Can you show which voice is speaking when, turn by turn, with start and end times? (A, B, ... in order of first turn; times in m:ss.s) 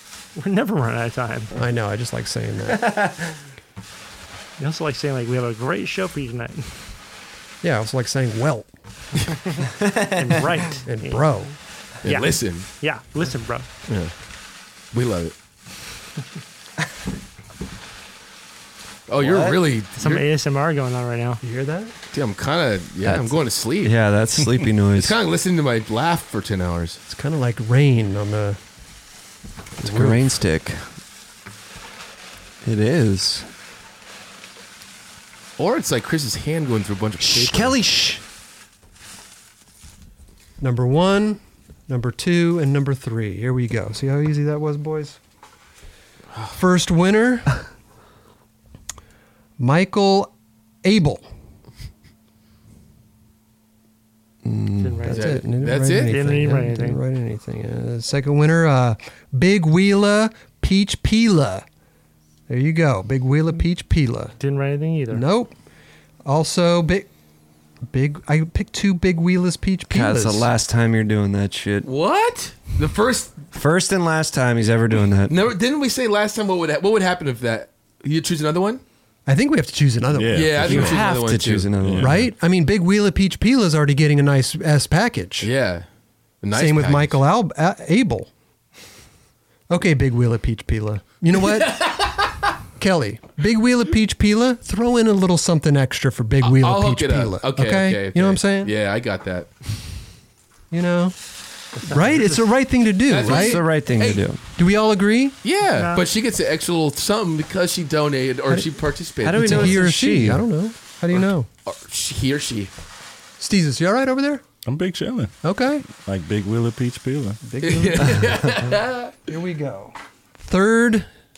0:00.4-0:01.5 A
0:01.5-0:03.0 B
0:02.7-0:03.3 C
0:04.6-0:06.8 A
0:07.6-0:08.7 B
0:09.6-0:11.4 A
0:09.8-0:10.3 C
0:10.8-0:11.5 B
0:12.0-0:12.7 D
0:12.0-0:13.7 A
0:13.9-0:14.1 D
0:14.9-0:15.3 D
0:19.1-0:20.2 D
0:19.2-0:19.6 C
0:20.0-0:21.4 A
0:21.4-0:21.9 B
0:22.1-0:23.9 D
0:23.0-0:25.2 C
0:24.9-0:27.0 D
0:27.1-0:28.6 B
0:29.8-0:30.2 B
0:29.8-0:30.9 C
0:32.6-0:33.5 C
0:35.6-0:37.8 D
0:37.2-0:38.2 C
0:40.6-0:45.2 B
0:46.5-0:47.6 B
0:49.6-0:50.3 B
0:50.8-0:51.2 B
0:54.4-0:55.2 C
0:54.8-0:55.4 A
0:55.0-1:01.6 B
0:55.1-0:56.2 D
0:56.0-0:57.0 A
1:02.5-1:04.4 B
1:04.4-1:05.2 A
1:05.1-1:05.5 B
1:06.2-1:07.1 B
1:07.9-1:10.5 B
1:09.9-1:11.9 C
1:11.8-1:13.4 D
1:13.5-1:15.4 C
1:15.3-1:18.8 D
1:19.3-1:20.6 B
1:20.1-1:21.1 E
1:20.3-1:21.7 D
1:20.6-1:22.1 C
1:21.8-1:22.3 E
1:22.0-1:25.5 B
1:25.4-1:25.8 D
1:26.4-1:27.2 D
1:26.5-1:28.3 B
1:29.7-1:32.0 B
1:31.6-1:32.2 D
1:32.8-1:38.7 B
1:36.4-1:39.5 D
1:40.7-1:41.2 B
1:41.8-1:42.4 A
1:41.8-1:43.6 B
1:43.1-1:44.3 D
1:43.2-1:44.4 C
1:44.6-1:45.4 B
1:45.4-1:49.8 D
1:45.7-1:46.0 A
1:49.2-1:50.4 C
1:49.3-1:51.5 B
1:51.1-1:52.7 D
1:53.4-1:54.4 B
1:54.6-1:57.4 E
1:55.4-1:55.8 B
1:57.4-1:58.8 B
1:57.6-1:59.1 D
1:58.2-1:58.5 C
1:59.3-2:01.1 B